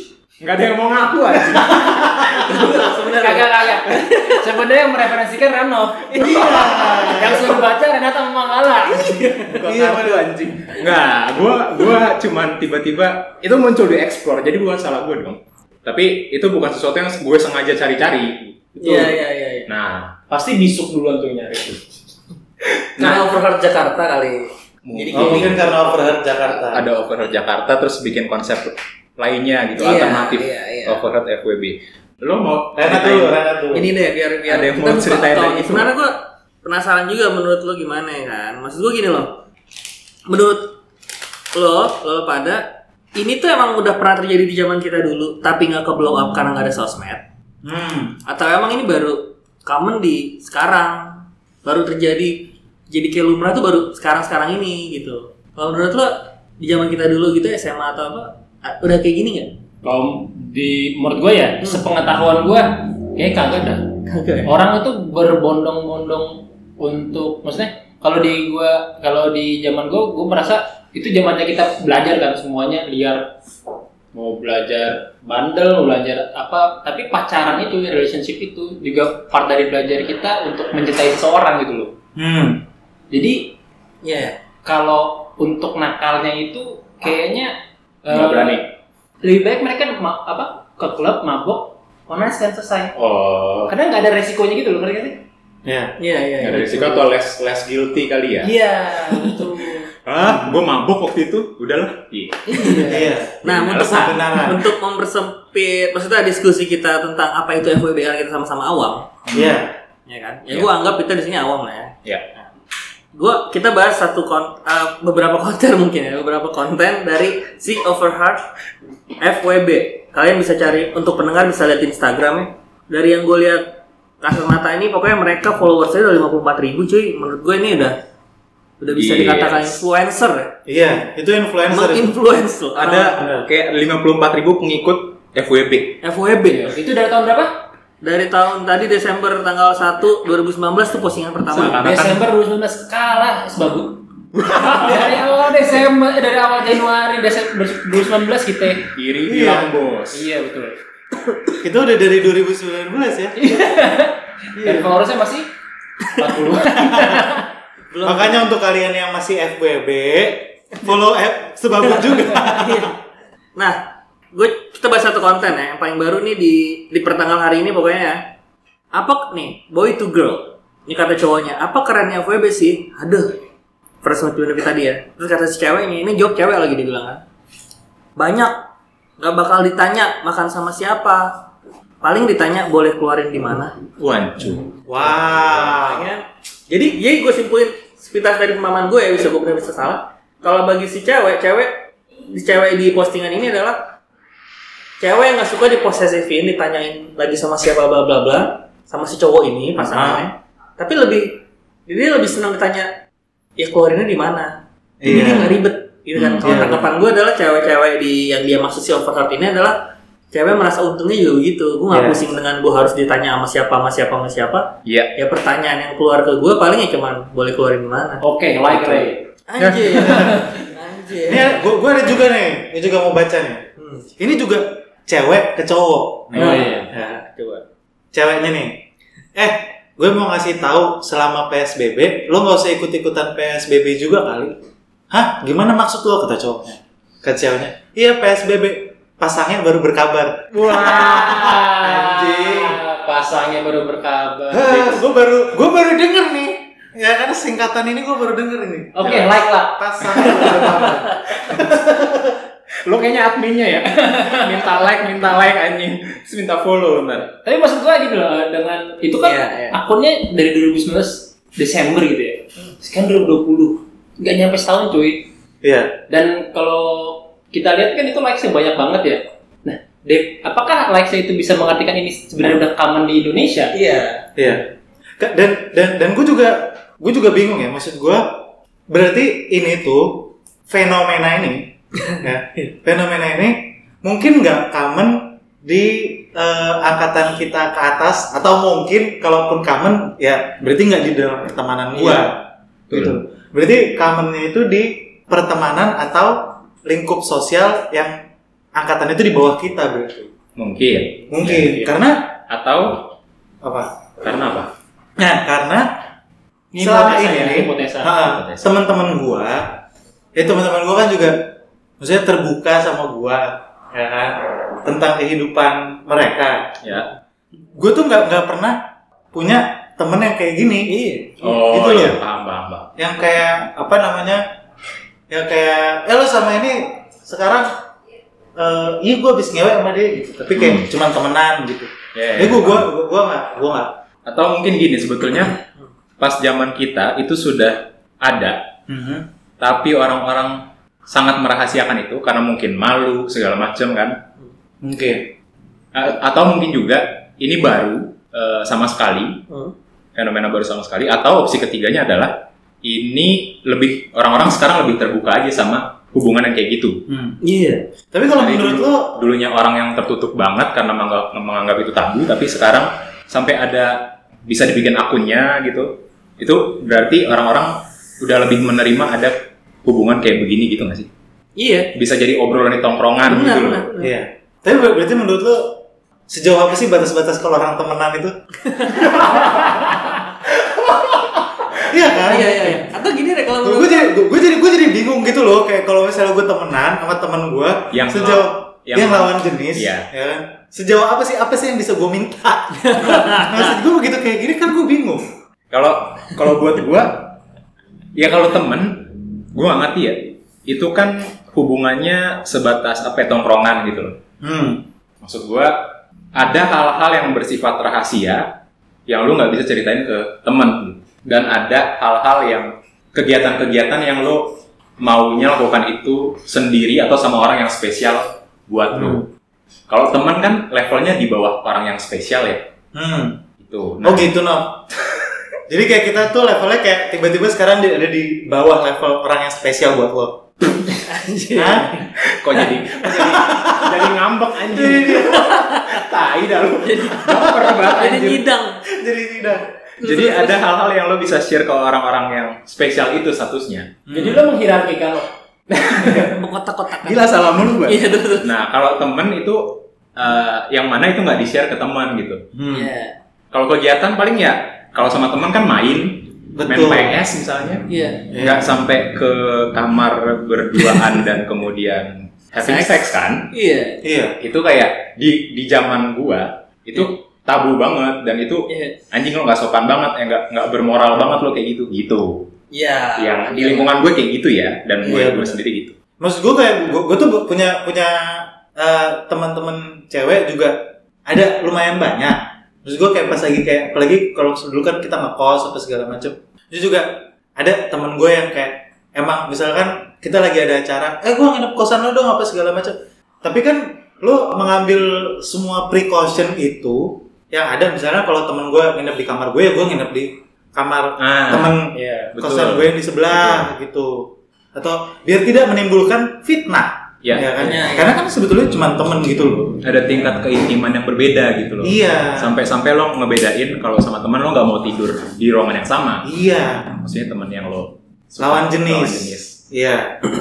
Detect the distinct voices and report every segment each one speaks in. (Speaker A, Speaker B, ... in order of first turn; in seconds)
Speaker A: 0.4-2.8, 9.6-20.2, 22.8-23.3, 24.9-25.6, 26.5-33.4, 34.5-35.9, 88.1-88.6, 93.0-93.7, 96.4-98.5, 100.1-102.7, 109.3-109.6, 128.9-129.8, 132.8-136.0, 141.5-142.2, 144.4-145.1, 149.0-150.2, 184.0-184.7, 206.2-206.6, 214.9-215.1, 252.8-257.3, 291.9-292.3, 292.9-293.2, 300.6-301.9, 302.5-303.1, 304.2-304.7, 308.2-308.7, 316.8-317.1, 321.4-322.9, 330.5-330.9, 332.1-332.9, 334.3-335.6, 336.2-338.6, 339.6-344.2, 345.9-349.4, 350.1-357.0, 358.4-371.1, 371.9-373.9, 387.9-390.1, 395.7-397.4, 398.2-404.2, 405.2-408.5, 409.1-419.3, 419.9-422.7, 423.6-424.3, 432.2-438.5, 440.0-443.9, 445.7-446.3, 447.0-452.4, 453.5-463.5, 464.4-472.5, 473.2-475.9, 501.2-501.8, 502.3-503.7, 507.2-507.7, 509.8-516.3, 517.0-519.6
Speaker B: 1.5-2.4, 6.2-7.6, 9.6-10.4, 25.1-26.9, 32.8-33.9, 47.6-48.2, 82.2-82.6, 95.7-96.0, 100.1-100.6, 102.9-104.7, 109.3-109.7, 130.7-132.2, 133.2-133.5, 149.3-149.8, 151.6-153.4, 154.6-154.9, 156.8-157.2, 158.0-162.9, 184.8-186.1, 199.8-200.3, 205.0-205.6, 206.4-206.9, 211.9-212.2, 219.7-220.5, 221.2-223.7, 224.2-227.2, 228.1-228.8, 229.3-234.6, 235.1-242.8, 244.5-252.4, 265.6-265.9, 274.4-274.6, 275.2-278.2, 278.9-298.2, 298.7-300.3, 301.3-302.3, 303.6-303.9, 305.2-305.9, 306.8-309.7, 310.4-316.8, 317.7-318.8, 319.3-322.2, 323.0-324.4, 325.3-327.8, 328.6-333.9, 338.9-339.3, 344.8-345.3, 357.1-357.4, 358.1-359.1, 374.0-378.3, 378.9-379.8, 380.6-381.1, 381.9-382.8, 383.6-395.3, 404.4-404.9, 418.9-419.3, 422.9-423.4, 424.0-424.9, 425.7-430.4, 431.5-432.0, 433.0-434.1, 434.7-435.6, 437.3-437.7, 438.9-439.7, 444.1-444.5, 452.5-452.9, 456.6-457.2, 458.3-458.7, 464.0-464.4, 475.1-475.6, 476.2-509.8, 511.8-512.6, 516.2-517.0, 518.4-520.2
Speaker C: 2.3-4.5, 6.1-7.2, 8.9-9.7, 18.8-19.7, 23.0-25.8, 29.8-31.0, 33.7-39.4, 40.3-40.8, 41.5-47.2, 48.3-59.6, 64.1-64.5, 84.0-84.4, 96.0-97.1, 99.2-99.5, 102.5-109.1, 110.1-112.5, 113.1-118.5, 119.2-128.0, 128.8-130.5, 131.7-133.2, 136.0-136.8, 138.0-141.8, 157.9-158.5, 161.8-163.0, 163.6-163.8, 164.3-168.3, 168.9-173.4, 174.0-177.2, 178.2-178.6, 179.2-181.5, 182.0-183.8, 185.7-193.9, 195.0-202.9, 203.6-218.2, 219.5-221.7, 223.8-224.1, 226.3-227.6, 259.2-259.8, 273.7-274.3, 320.9-321.4, 349.5-349.8, 357.4-357.9, 371.6-371.9, 373.3-374.1, 378.6-379.2, 382.1-384.1, 392.8-393.8, 430.9-432.1, 435.0-436.1, 436.8-438.8, 440.0-440.6, 446.1-448.5, 452.7-453.2, 457.9-458.3, 462.6-464.0, 468.7-469.0, 472.7-474.0, 475.0-475.4, 507.6-508.2
Speaker D: 3.1-9.3, 20.3-21.9, 59.8-63.9, 64.5-73.3, 74.1-81.9, 83.1-83.5, 84.7-88.6, 89.2-92.9, 93.7-95.2, 98.4-99.9, 102.5-103.1, 136.4-137.6, 141.6-148.9, 150.1-150.8, 153.4-155.5, 156.2-157.5, 218.2-219.2, 219.9-220.7, 226.3-226.9, 240.6-245.0, 248.9-250.7, 254.0-254.5, 257.4-265.3, 266.1-273.8, 306.7-308.1, 444.1-445.3, 501.9-502.3